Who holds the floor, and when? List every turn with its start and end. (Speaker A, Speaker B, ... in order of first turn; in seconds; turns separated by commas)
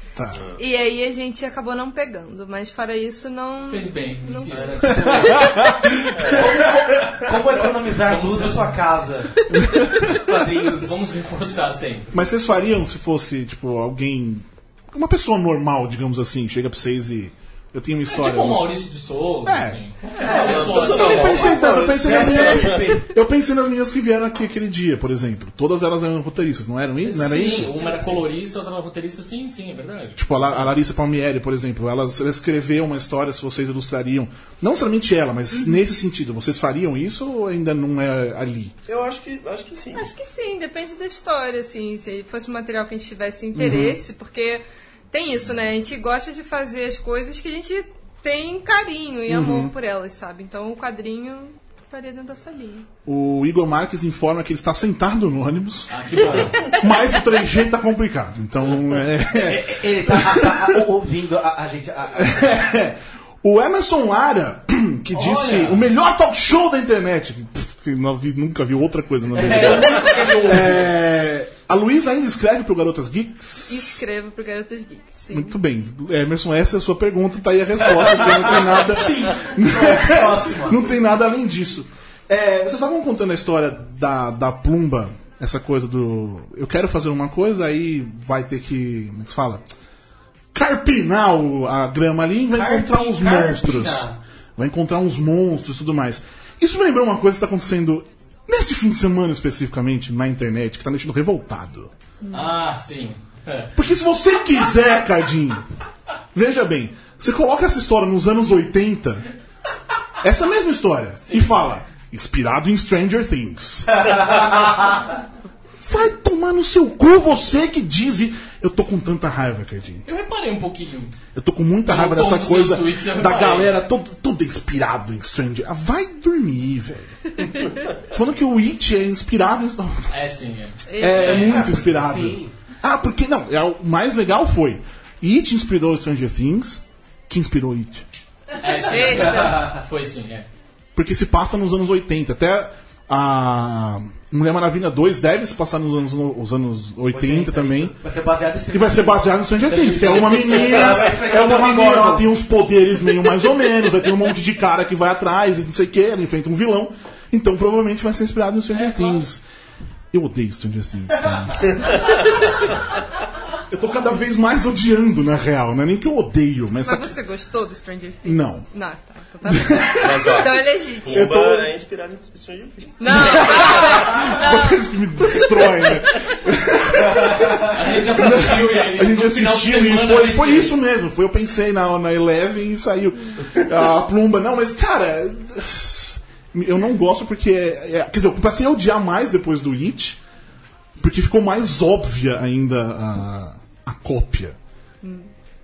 Speaker A: 0.1-0.4, Speaker B: 0.3-0.6, Speaker C: 0.6-5.5, Speaker D: 3.7-5.3, Speaker E: 4.5-11.0, Speaker A: 5.0-6.8, Speaker B: 6.1-6.7, Speaker D: 6.3-6.6, Speaker D: 8.0-8.8, Speaker A: 9.5-10.2, Speaker D: 10.7-12.1, Speaker A: 12.1-18.7, Speaker D: 18.1-21.6, Speaker A: 19.4-19.8, Speaker E: 20.2-23.1, Speaker B: 20.2-22.9, Speaker A: 20.9-28.1, Speaker D: 27.0-30.7, Speaker A: 30.1-38.7, Speaker B: 38.9-40.1, Speaker C: 39.9-52.9, Speaker A: 43.5-44.0, Speaker A: 49.3-49.7, Speaker A: 53.0-60.8, Speaker D: 55.9-56.7, Speaker E: 59.3-62.6, Speaker A: 62.1-74.0, Speaker D: 65.1-65.9, Speaker E: 69.3-70.9, Speaker D: 69.6-70.7, Speaker C: 73.7-75.5, Speaker A: 75.3-89.7, Speaker E: 78.0-80.9, Speaker A: 90.5-101.9, Speaker E: 92.5-94.2, Speaker D: 102.3-103.7, Speaker A: 103.7-105.6, Speaker A: 106.3-109.3, Speaker A: 110.2-114.8, Speaker D: 111.2-111.5, Speaker A: 115.8-120.0, Speaker D: 120.0-121.1, Speaker A: 121.3-127.4, Speaker D: 121.8-123.8, Speaker C: 127.4-127.7, Speaker A: 128.0-130.1, Speaker D: 130.1-131.7, Speaker C: 130.9-131.3, Speaker A: 131.0-138.1, Speaker E: 131.2-132.6, Speaker D: 138.6-140.5, Speaker C: 138.9-139.7, Speaker E: 138.9-139.8, Speaker A: 140.9-147.9, Speaker E: 147.1-152.3, Speaker A: 148.7-159.4, Speaker D: 149.7-151.0, Speaker D: 158.7-159.2, Speaker A: 160.1-162.2, Speaker B: 161.8-162.1, Speaker A: 163.7-167.2, Speaker C: 166.8-171.3, Speaker A: 168.2-168.6, Speaker A: 169.4-170.4, Speaker B: 169.9-174.3, Speaker A: 171.1-171.7, Speaker C: 173.0-175.8, Speaker A: 173.0-190.2, Speaker D: 177.7-180.8, Speaker A: 191.0-194.6, Speaker C: 195.0-195.3